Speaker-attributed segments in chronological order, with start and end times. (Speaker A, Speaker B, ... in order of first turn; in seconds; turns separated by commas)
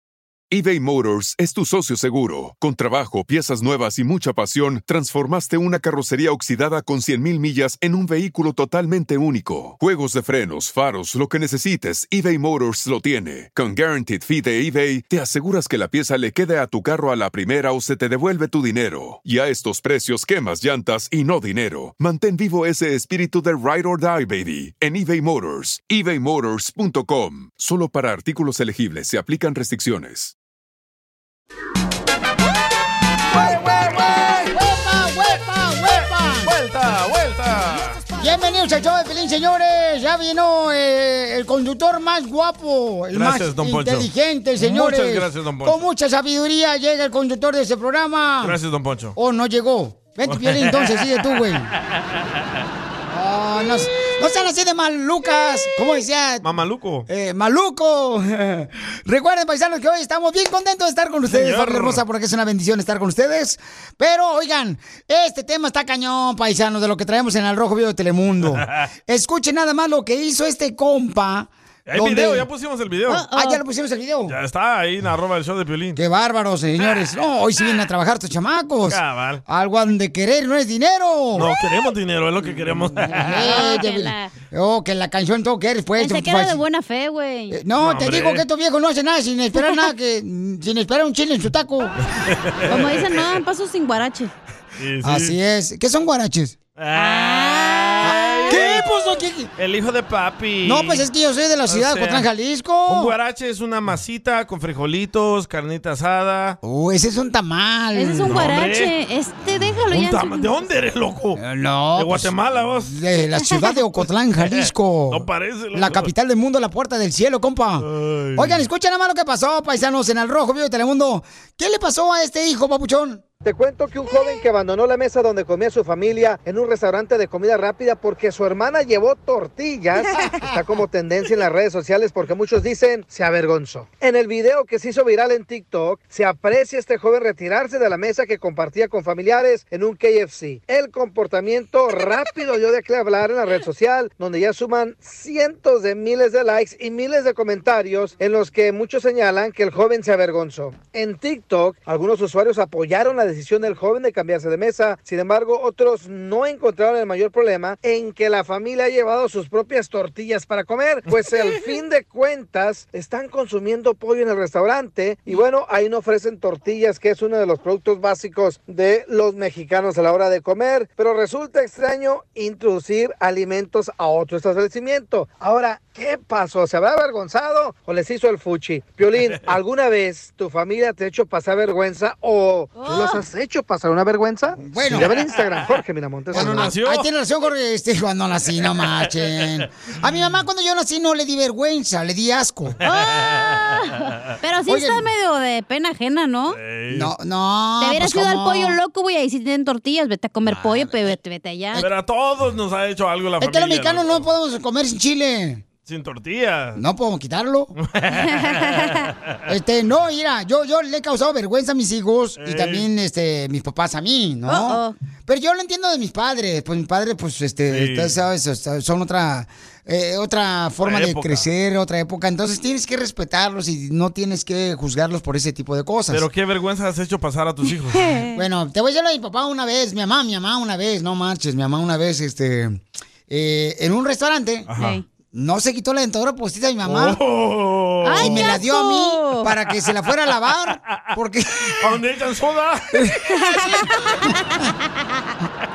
Speaker A: 0.5-30.3, Speaker B: 33.3-36.5, Speaker C: 33.3-34.5, Speaker C: 36.3-38.1, Speaker B: 38.1-48.6, Speaker C: 43.1-45.9, Speaker C: 48.4-49.1, Speaker B: 49.1-51.7, Speaker C: 50.2-51.1, Speaker B: 53.1-56.5, Speaker C: 56.4-57.1, Speaker B: 57.1-72.5, Speaker C: 61.3-62.0, Speaker C: 71.9-73.2, Speaker D: 73.1-73.6, Speaker B: 73.2-74.3, Speaker C: 74.3-76.0, Speaker B: 76.0-81.5, Speaker C: 78.9-79.4, Speaker C: 81.3-83.6, Speaker B: 82.9-86.6, Speaker D: 83.3-84.3, Speaker D: 86.0-87.6, Speaker B: 87.5-92.0, Speaker C: 87.8-88.4, Speaker C: 92.2-93.2, Speaker D: 92.7-94.3, Speaker C: 94.8-95.3, Speaker B: 95.0-96.5, Speaker C: 96.8-98.8, Speaker D: 96.9-98.7, Speaker B: 98.0-99.5, Speaker C: 99.6-101.0, Speaker B: 100.6-103.1, Speaker C: 101.7-102.3, Speaker C: 102.8-106.6, Speaker B: 106.6-108.5, Speaker D: 107.9-110.5, Speaker C: 108.3-108.9, Speaker C: 109.9-111.4, Speaker B: 111.4-112.3, Speaker C: 111.9-113.0, Speaker B: 112.8-123.2, Speaker C: 114.4-116.1, Speaker C: 117.8-118.6, Speaker E: 123.4-186.7, Speaker D: 182.8-183.2, Speaker B: 184.6-185.1, Speaker C: 186.3-187.1, Speaker B: 186.3-192.8, Speaker C: 188.6-189.6, Speaker D: 192.8-196.6, Speaker C: 192.9-193.7, Speaker B: 194.7-195.1, Speaker C: 196.5-197.1, Speaker B: 196.9-198.8, Speaker D: 197.8-201.8, Speaker B: 200.4-201.0, Speaker C: 201.7-204.3, Speaker B: 203.4-205.6, Speaker C: 205.8-206.8, Speaker B: 206.8-207.7, Speaker C: 207.8-208.8, Speaker D: 208.1-209.0, Speaker B: 209.5-226.2, Speaker C: 212.4-212.9, Speaker D: 214.4-214.9, Speaker C: 217.7-218.2, Speaker C: 220.8-221.5, Speaker C: 226.1-228.2, Speaker D: 227.9-228.4, Speaker B: 228.3-234.7, Speaker C: 234.7-235.0, Speaker D: 234.8-235.0, Speaker B: 235.3-237.2, Speaker C: 236.8-238.5, Speaker D: 238.0-239.5, Speaker B: 238.1-242.0, Speaker C: 241.8-243.1, Speaker D: 243.3-244.6